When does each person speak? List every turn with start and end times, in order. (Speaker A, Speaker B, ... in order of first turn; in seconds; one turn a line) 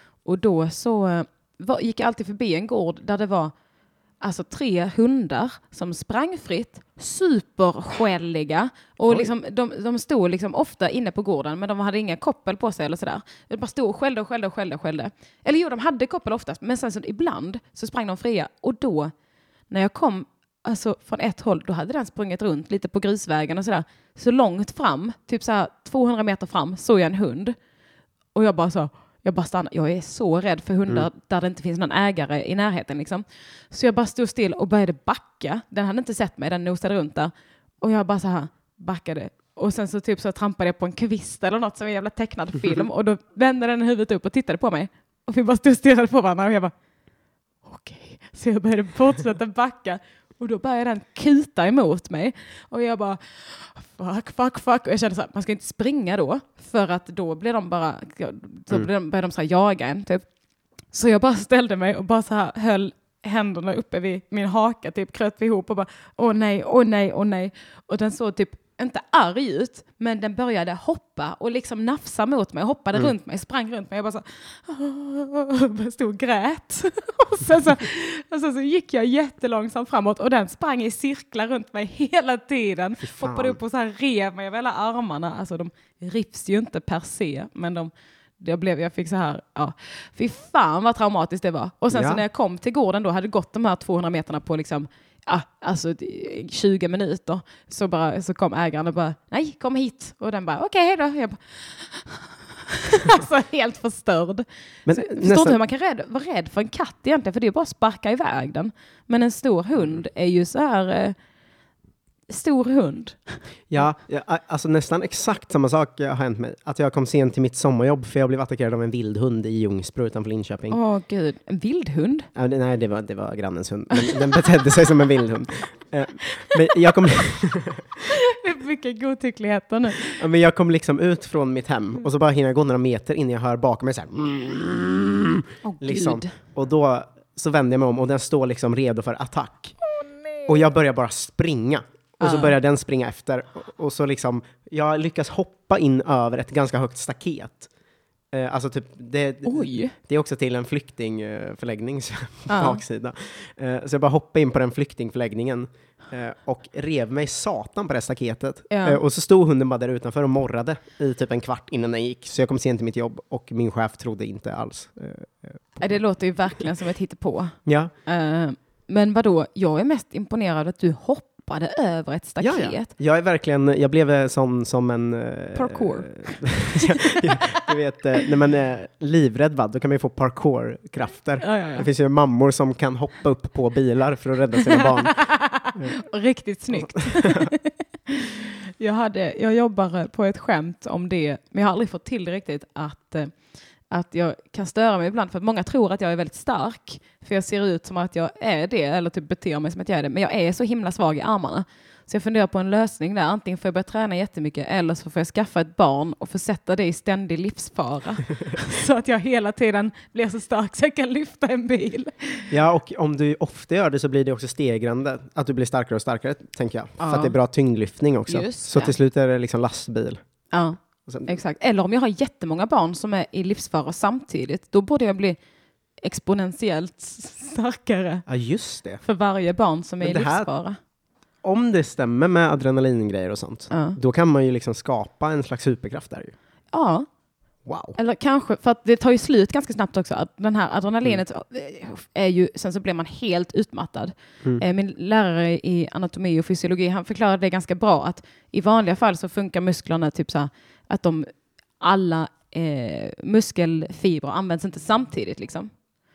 Speaker A: 0.2-3.5
Speaker A: 4.2-19.1
Speaker A: 19.7-27.6
Speaker A: 28.3-46.7
Speaker A: 47.6-60.2
Speaker A: 60.9-111.1
Speaker B: 83.0-83.6
Speaker B: 91.9-92.2
Speaker B: 104.8-105.6
Speaker A: 112.3-113.4
Speaker B: 113.7-120.8
Speaker A: 120.7-122.3
Speaker B: 122.3-127.8
Speaker A: 123.9-124.4
Speaker A: 128.1-130.2
Speaker B: 130.1-139.8
Speaker A: 135.6-136.3
Speaker B: 140.5-147.7
Speaker A: 142.2-142.6
Speaker B: 148.3-166.0
Speaker A: 149.4-149.9
Speaker A: 152.5-152.8
Speaker A: 158.7-159.0
Speaker A: 165.8-172.9
Speaker B: 167.7-167.9
Speaker B: 172.4-185.2
Speaker A: 175.5-177.1
Speaker A: 181.4-181.8
Speaker A: 184.8-193.3
Speaker B: 186.7-187.5
Speaker A: 193.9-212.5
Speaker B: 212.5-220.2
Speaker A: 217.0-217.3
Speaker A: 218.3-218.9
Speaker A: 220.5-225.4
Speaker B: 221.1-221.3
Speaker A: 226.0-228.2
Speaker B: 228.2-229.0
Speaker A: 229.0-230.8
Speaker B: 230.0-230.5
Speaker B: 231.4-236.3
Speaker A: 233.7-234.0
Speaker A: 236.7-237.1
Speaker B: 237.7-237.9
Speaker A: 237.9-255.7